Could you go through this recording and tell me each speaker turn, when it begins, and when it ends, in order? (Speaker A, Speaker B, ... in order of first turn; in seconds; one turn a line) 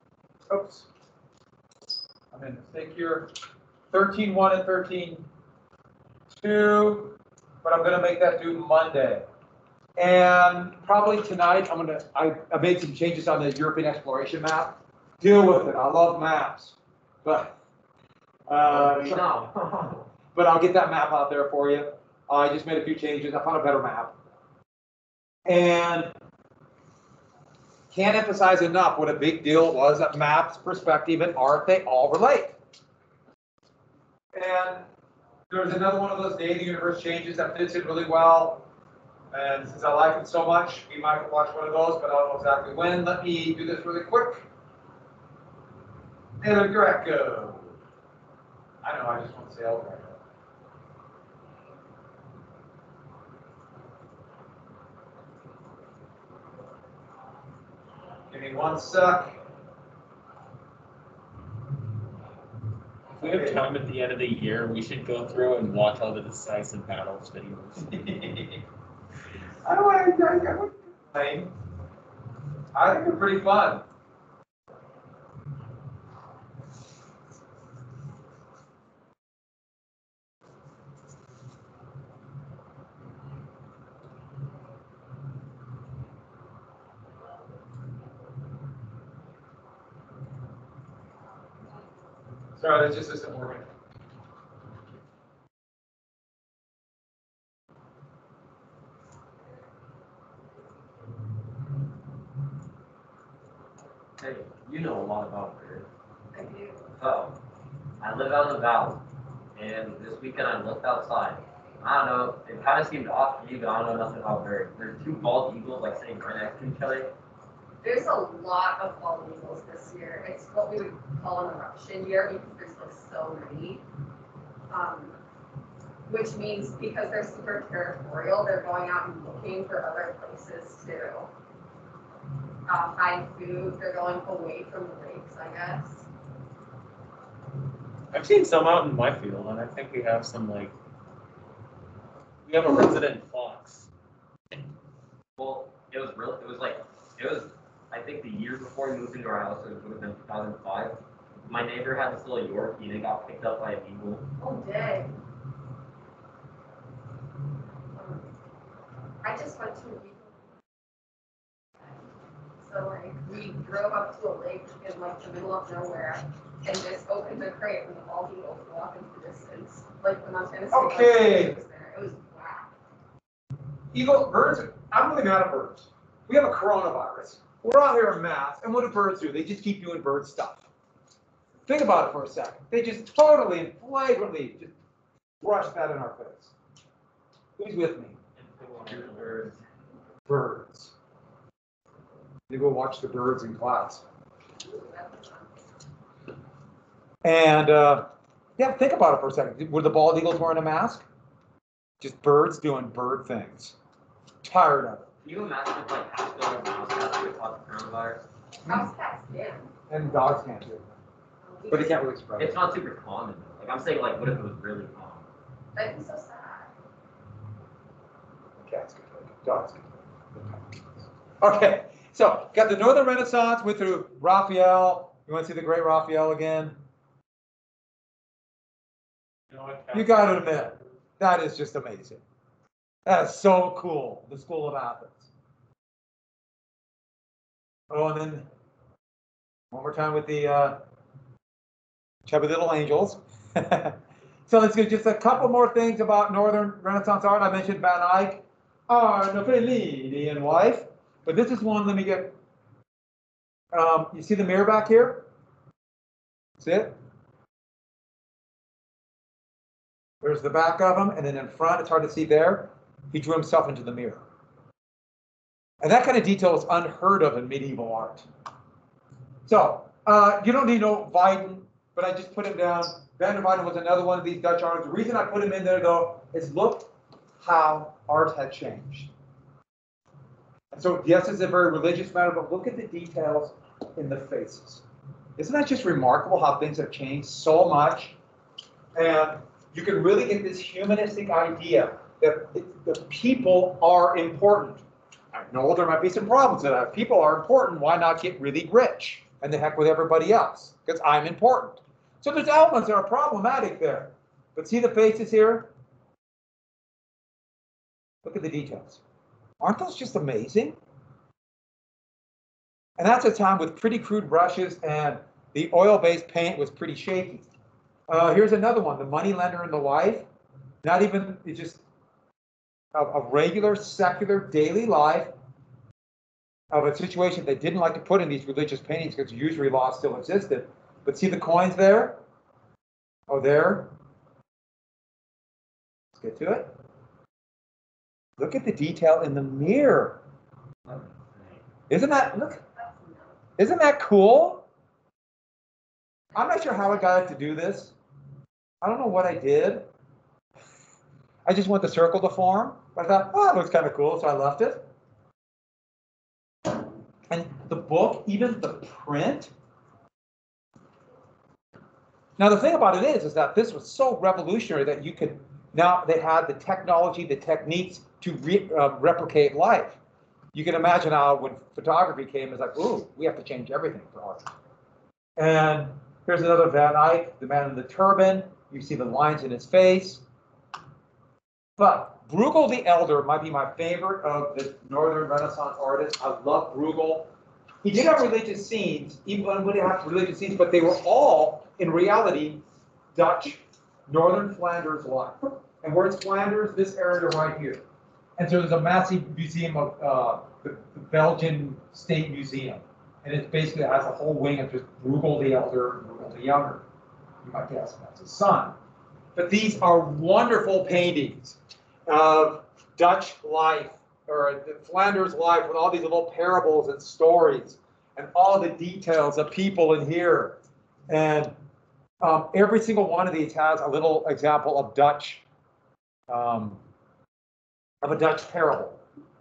Speaker A: 0.5-0.9
Speaker A: 2.3-3.3
Speaker A: 3.9-5.2
Speaker A: 6.4-9.2
Speaker A: 10.0-17.6
Speaker A: 18.5-19.3
Speaker B: 18.7-20.1
Speaker A: 20.3-24.1
Speaker A: 25.4-26.1
Speaker A: 27.9-32.5
Speaker A: 34.3-34.8
Speaker A: 35.5-38.6
Speaker A: 39.3-44.4
Speaker A: 46.4-47.7
Speaker A: 48.8-50.2
Speaker A: 58.3-59.3
Speaker C: 63.2-68.2
Speaker A: 63.2-63.6
Speaker A: 68.1-68.5
Speaker A: 69.6-71.5
Speaker A: 72.7-73.8
Speaker A: 92.5-93.7
Speaker B: 104.2-105.9
Speaker D: 106.3-106.9
Speaker B: 107.0-107.3
Speaker B: 108.0-109.0
Speaker B: 109.5-117.1
Speaker D: 117.8-123.8
Speaker D: 124.7-125.1
Speaker D: 126.0-131.3
Speaker D: 132.7-136.0
Speaker C: 138.1-140.7
Speaker C: 142.4-143.9
Speaker B: 145.4-154.3
Speaker D: 154.4-155.1
Speaker D: 157.9-158.2
Speaker D: 159.2-160.3
Speaker D: 162.6-172.7
Speaker A: 170.7-171.6
Speaker A: 173.9-180.6
Speaker A: 181.7-184.7
Speaker A: 185.4-186.5
Speaker A: 187.6-188.2
Speaker C: 188.4-189.5
Speaker B: 188.9-189.5
Speaker A: 190.2-190.9
Speaker A: 192.5-194.0
Speaker D: 194.6-195.5
Speaker A: 197.2-198.1
Speaker A: 198.6-201.0
Speaker A: 202.0-203.8
Speaker A: 204.4-205.1
Speaker B: 205.2-208.2
Speaker D: 208.7-209.7
Speaker A: 209.9-210.9
Speaker D: 211.4-212.0
Speaker A: 211.7-212.7
Speaker B: 212.4-215.2
Speaker D: 215.7-216.7
Speaker A: 218.6-220.7
Speaker A: 221.4-226.8
Speaker C: 229.5-230.7
Speaker A: 229.9-232.2
Speaker A: 233.1-235.3
Speaker A: 237.9-238.5
Speaker A: 239.7-240.8
Speaker A: 242.2-244.0
Speaker A: 244.5-252.3
Speaker A: 253.7-255.2
Speaker A: 256.6-256.9
Speaker A: 260.2-264.2
Speaker A: 265.8-268.3
Speaker A: 269.4-279.1
Speaker A: 280.7-284.8
Speaker A: 285.4-288.1
Speaker A: 288.9-305.7
Speaker A: 308.2-309.0
Speaker A: 309.6-310.8
Speaker A: 313.0-317.5
Speaker A: 318.1-320.2
Speaker A: 320.8-321.8
Speaker A: 322.9-325.3
Speaker A: 326.7-332.2
Speaker A: 333.3-333.9
Speaker A: 336.1-336.7
Speaker A: 338.4-340.2
Speaker B: 340.9-341.6
Speaker A: 341.9-342.6
Speaker D: 342.8-343.3
Speaker A: 343.6-344.6
Speaker A: 346.3-347.9
Speaker A: 348.8-349.9
Speaker A: 351.4-354.8
Speaker A: 357.3-359.5
Speaker A: 362.4-370.0
Speaker A: 370.5-374.4
Speaker A: 375.4-380.2
Speaker A: 381.8-387.3
Speaker A: 387.8-392.6
Speaker A: 393.1-397.8
Speaker A: 398.4-406.8
Speaker A: 407.4-408.7
Speaker A: 409.3-420.6
Speaker A: 421.1-421.5
Speaker A: 422.2-425.4
Speaker A: 426.3-426.8
Speaker A: 428.0-429.0